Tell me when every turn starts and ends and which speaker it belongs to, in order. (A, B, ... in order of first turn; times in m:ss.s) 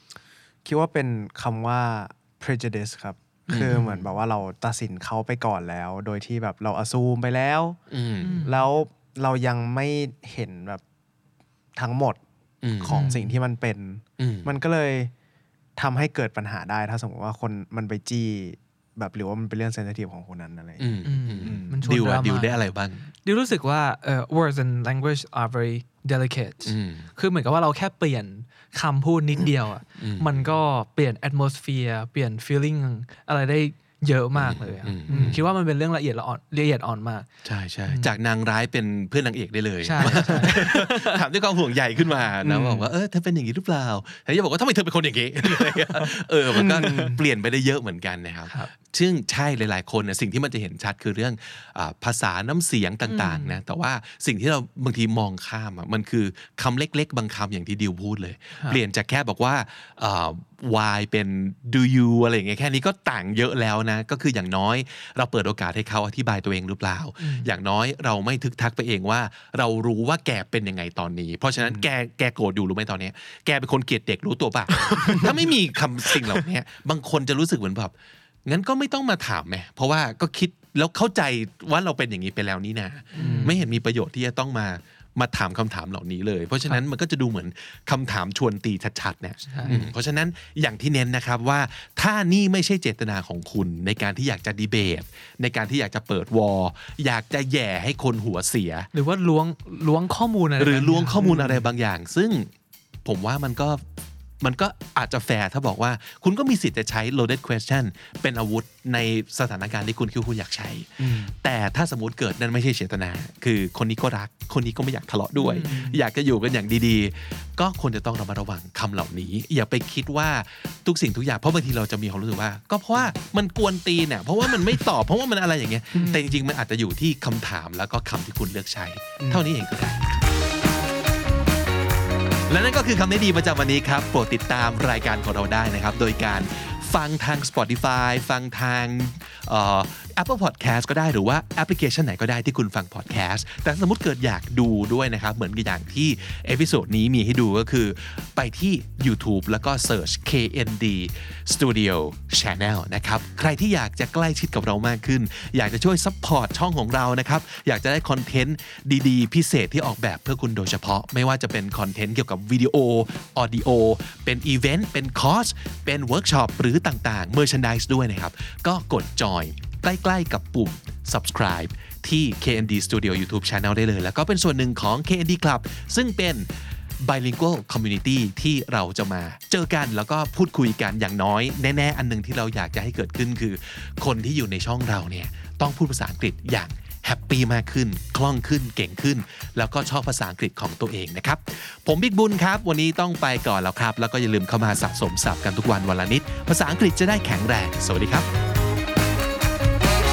0:00.6-0:07.8 A
0:03.5-0:03.8 B
0:03.5-0:04.0 C
0:07.9-0:08.4 B
0:08.2-0:08.7 C
0:08.4-0:10.8 A
0:11.8-0:12.2 A
0:12.6-0:13.1 B
0:12.8-0:15.1 A
0:12.8-0:13.3 C
0:14.2-0:14.5 B
0:15.8-0:21.8 A
0:20.8-0:23.1 B
0:21.0-0:22.6 C
0:23.2-0:37.3 C
0:26.6-0:27.1 B
0:30.0-0:30.6 B
0:34.4-0:35.4 B
0:35.1-0:35.4 A
0:37.4-1:17.9 B
0:37.9-0:38.1 C
0:39.8-0:41.2 C
0:40.0-0:40.4 A
0:42.4-0:42.9 A
0:45.5-0:47.1 C
0:46.5-0:47.2 A
0:53.1-0:53.6 C
1:07.2-1:07.5 C
1:14.9-1:15.3 C
1:18.5-1:38.9 B
1:23.1-1:23.6 C
1:23.2-1:23.6 A
1:29.4-1:29.8 C
1:29.6-1:29.9 A
1:38.9-1:41.2 C
1:40.6-1:42.5 B
1:41.2-1:41.7 A
1:43.0-1:43.8 B
1:44.4-2:10.3 B
1:51.0-1:51.3 A
1:55.4-1:55.9 C
1:55.6-1:56.0 A
2:06.0-2:06.4 C
2:09.2-2:09.4 A
2:12.5-3:18.3 B